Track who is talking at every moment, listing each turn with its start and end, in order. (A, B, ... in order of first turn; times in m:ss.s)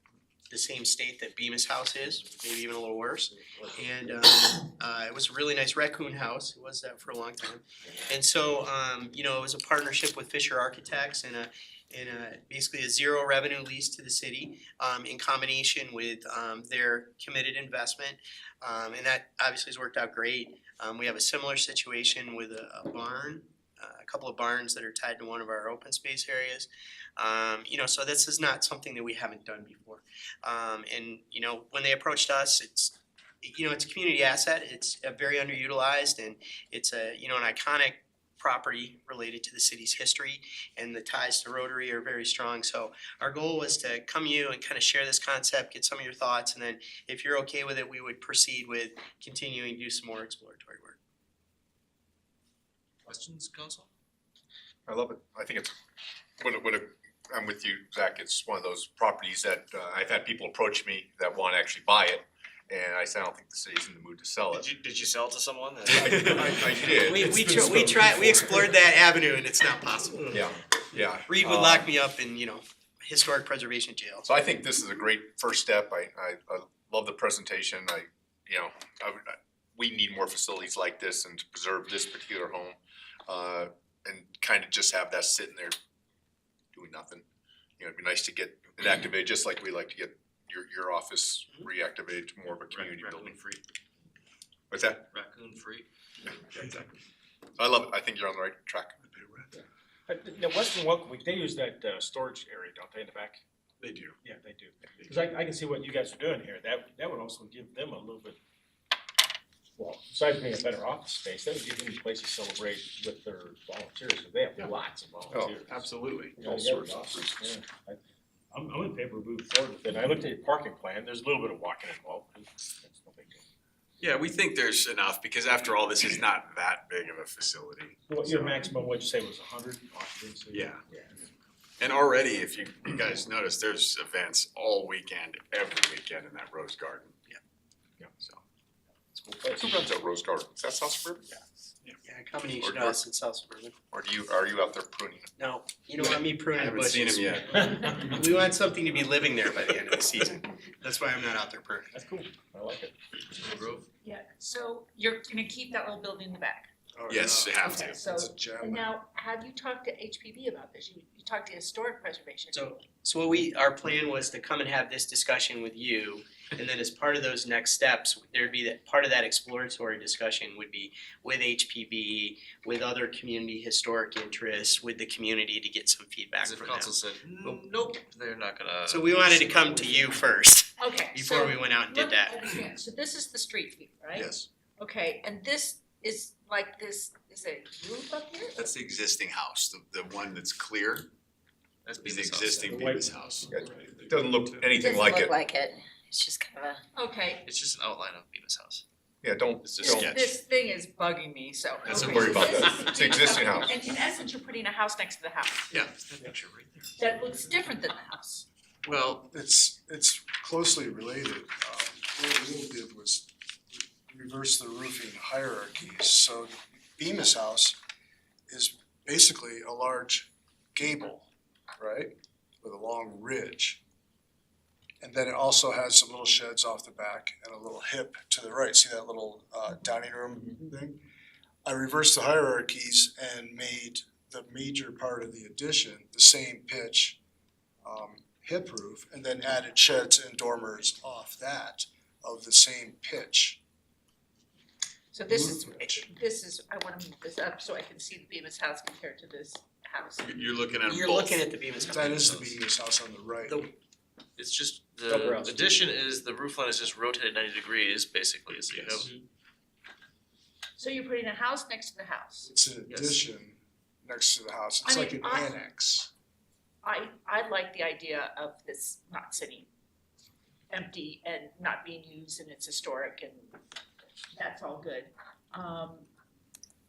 0:00.5-0:51.0 A
0:53.1-0:53.9 B
0:54.9-0:55.7 C
0:56.4-1:04.7 C
1:04.5-1:06.7 B
1:05.9-1:10.4 A
1:06.2-1:07.9 C
1:07.4-1:08.1 D
1:10.3-1:11.9 C
1:11.3-1:14.3 A
1:14.2-1:25.7 C
1:26.7-1:27.2 C
1:27.8-1:33.4 C
1:32.5-1:33.6 B
1:34.7-1:35.0 C
1:35.1-1:35.9 B
1:37.6-1:39.0 C
1:39.1-1:39.4 E
1:40.1-1:43.4 F
1:43.8-1:44.2 E
1:44.2-1:48.4 F
1:45.0-1:45.2 E
1:49.8-1:55.8 F
1:55.3-1:55.6 C
1:55.7-1:56.4 E
1:56.4-1:58.0 F
1:56.4-1:57.5 C
1:58.5-2:03.4 F
2:04.0-2:08.6 E
2:08.1-2:11.2 F
2:10.5-2:10.8 E
2:11.8-2:17.4 E
2:19.1-2:19.7 F
2:19.6-2:21.2 C
2:22.0-2:23.7 A
2:22.6-2:23.0 C
2:23.9-2:25.3 C
2:25.4-2:31.9 A
2:26.0-2:28.1 E
2:27.6-2:28.2 F
2:31.9-2:32.9 F
2:33.4-2:33.8 B
2:34.0-2:36.7 G
2:37.0-2:38.9 D
2:37.1-2:38.2 E
2:37.6-2:42.7 G
2:42.5-2:57.6 A
2:56.4-3:00.2 B
2:58.8-3:02.5 A
3:00.8-3:08.6 G
3:04.1-3:04.5 E
3:08.5-3:11.1 E
3:11.8-3:12.8 B
3:12.0-3:14.1 E
3:12.6-3:13.6 F
3:13.5-3:15.3 C
3:14.7-3:16.8 H
3:16.9-3:17.5 G
3:17.4-3:18.8 B
3:19.2-3:20.1 C
3:19.6-3:20.0 B
3:19.8-3:25.6 G
3:19.9-3:20.3 E
3:21.8-3:22.4 E
3:22.0-3:22.5 B
3:22.1-3:23.7 C
3:25.7-3:26.9 B
3:27.0-3:28.4 G
3:28.8-3:29.3 B
3:29.3-3:37.8 D
3:38.5-3:43.8 D
3:45.0-3:51.0 D
3:51.6-3:57.2 D
3:57.8-4:03.6 D
4:05.1-4:10.3 G
4:05.2-4:06.1 D
4:10.2-4:11.8 E
4:10.8-4:12.1 A
4:11.9-4:13.6 D
4:12.0-4:12.5 B
4:14.4-4:19.2 B
4:15.1-4:15.5 A
4:18.7-4:19.1 E
4:20.8-4:22.5 G
4:22.4-4:26.1 D
4:22.9-4:23.2 B
4:24.8-4:25.6 G
4:26.8-4:29.7 G
4:30.7-4:33.5 G
4:34.4-4:36.1 G